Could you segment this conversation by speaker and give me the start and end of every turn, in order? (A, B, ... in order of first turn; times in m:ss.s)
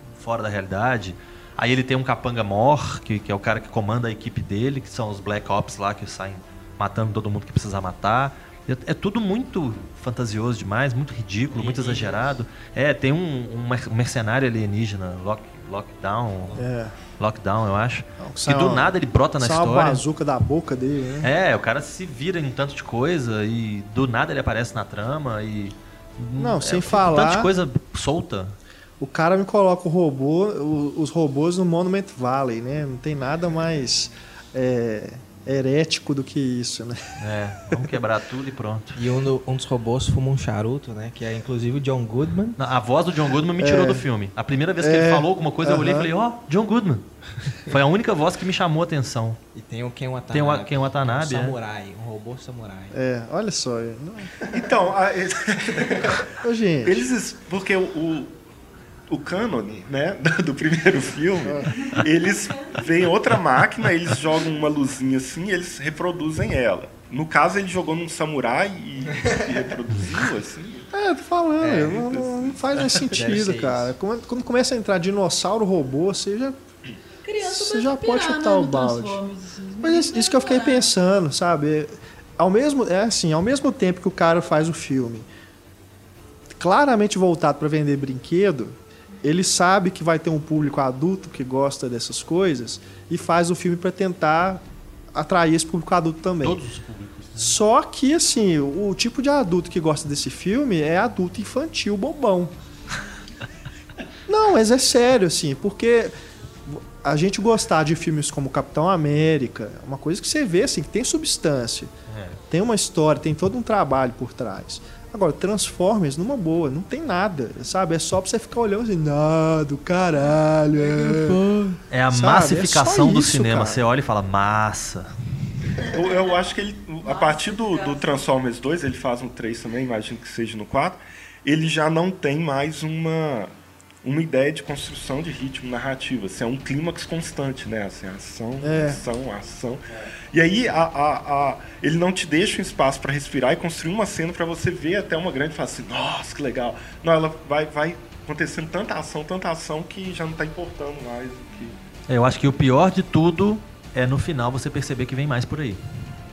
0:00.2-0:16.6 A
0:11.5-0:12.3 B
0:16.5-0:17.0 C
0:17.2-0:20.0 A
0:18.2-0:21.3 C
0:21.2-0:28.6 A
0:26.4-0:27.5 C
0:29.0-0:37.2 C
0:37.2-0:39.0 A
0:39.0-0:42.6 B
0:42.6-0:49.4 A
0:43.6-0:44.1 C
0:44.8-0:46.1 C
0:49.5-0:53.0 B
0:50.3-0:51.6 A
0:52.9-0:54.5 C
0:54.4-0:58.3 D
0:56.4-0:57.0 C
0:59.1-1:10.9 D
1:10.9-1:16.6 C
1:11.6-1:12.0 B
1:11.8-1:13.0 D
1:13.1-1:13.9 B
1:17.2-1:20.9 E
1:17.4-1:19.2 C
1:19.8-1:25.3 C
1:26.6-1:36.6 C
1:36.4-1:37.6 A
1:37.4-1:42.5 C
1:44.3-1:46.1 C
1:46.6-1:51.9 C
1:52.1-1:52.4 A
1:52.5-2:01.5 C
2:01.0-2:01.8 E
2:01.9-2:05.1 A
2:02.1-2:03.8 C
2:05.8-2:13.5 D
2:07.1-2:08.1 E
2:14.0-2:31.8 D
2:18.6-2:19.0 C
2:32.1-2:35.8 A